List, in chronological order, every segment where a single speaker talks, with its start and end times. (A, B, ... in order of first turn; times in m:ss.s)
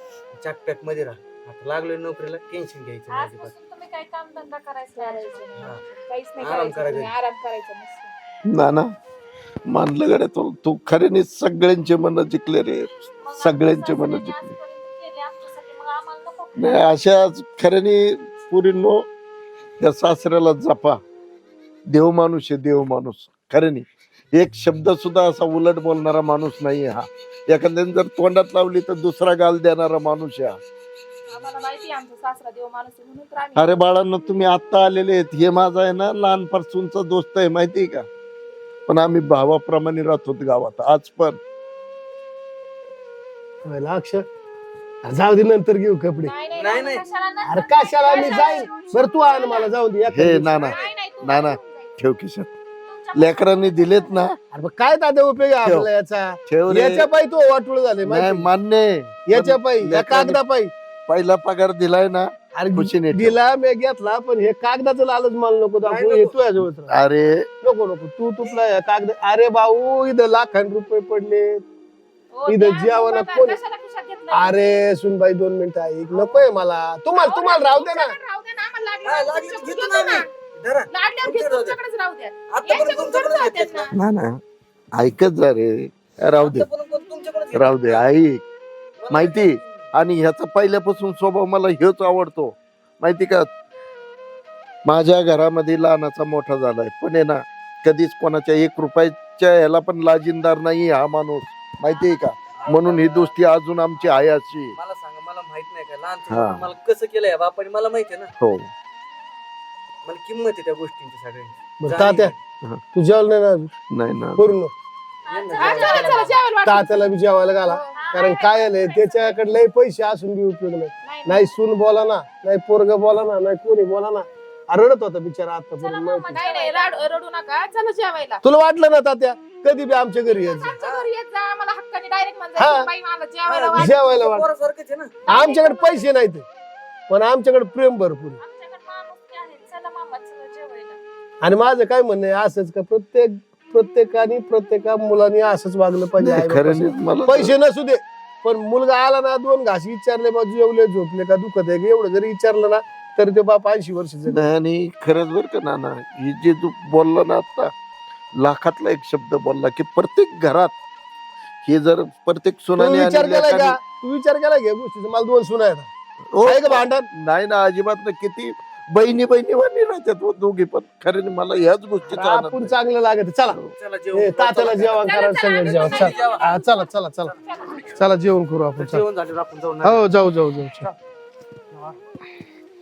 0:00.4-0:03.5 A
0:03.1-0:05.5 B
0:05.0-0:08.1 C
0:06.4-0:07.1 A
0:08.5-0:08.9 D
0:09.7-0:14.5 D
0:13.2-0:16.9 B
0:16.6-0:19.0 D
0:19.8-0:21.0 D
0:21.9-0:30.6 D
0:31.3-0:33.8 C
0:33.6-0:38.1 D
0:38.9-0:41.4 D
0:43.6-0:44.2 E
0:45.0-0:46.3 E
0:46.2-0:46.9 C
0:46.6-0:47.0 A
0:46.9-0:49.7 B
0:47.5-0:50.8 E
0:50.1-0:52.5 D
0:50.7-0:51.7 C
0:50.8-0:51.4 B
0:52.9-0:54.3 B
0:53.1-0:54.4 D
0:54.5-0:58.5 E
0:55.6-0:55.9 D
0:56.5-0:57.1 D
0:58.0-1:00.4 D
0:59.3-1:00.7 E
1:01.1-1:03.4 D
1:02.6-1:06.9 E
1:05.8-1:06.4 A
1:06.9-1:07.5 D
1:07.6-1:11.6 E
1:12.3-1:14.6 C
1:12.5-1:13.6 E
1:14.3-1:18.2 E
1:17.2-1:20.3 C
1:19.0-1:21.8 A
1:20.9-1:23.9 C
1:22.5-1:23.9 A
1:23.9-1:24.4 D
1:25.0-1:26.7 D
1:26.4-1:28.1 A
1:27.5-1:28.4 D
1:29.0-1:29.7 A
1:29.1-1:33.5 D
1:34.8-1:44.8 D
1:42.6-1:43.4 A
1:43.9-1:48.3 A
1:46.3-1:46.7 D
1:48.4-1:48.7 D
1:50.0-1:52.4 A
1:51.8-1:52.3 E
1:52.9-1:53.7 E
1:53.9-1:54.6 D
1:54.4-1:54.7 E
1:55.2-1:56.3 B
1:55.3-1:56.4 A
1:55.6-1:57.1 C
1:56.6-2:06.4 E
1:57.7-1:58.3 C
1:58.0-1:59.3 B
2:01.0-2:01.5 C
2:05.8-2:08.4 C
2:05.9-2:07.0 B
2:08.4-2:10.8 E
2:10.3-2:14.1 C
2:10.8-2:11.1 A
2:12.6-2:12.9 E
2:13.5-2:15.1 A
2:13.8-2:14.5 E
2:15.2-2:16.1 C
2:15.3-2:16.5 E
2:17.1-2:18.4 E
2:18.4-2:21.0 B
2:21.4-2:34.5 E
2:26.2-2:27.6 D
2:34.3-2:37.7 D
2:38.4-2:40.8 D
2:41.6-2:43.8 D
2:42.8-2:45.9 E
2:46.3-2:52.8 D
2:46.4-2:47.1 E
2:52.1-2:53.6 E
2:53.8-2:56.6 A
2:54.1-2:59.0 E
2:55.4-2:56.3 C
2:58.8-3:00.2 A
2:59.8-3:00.9 E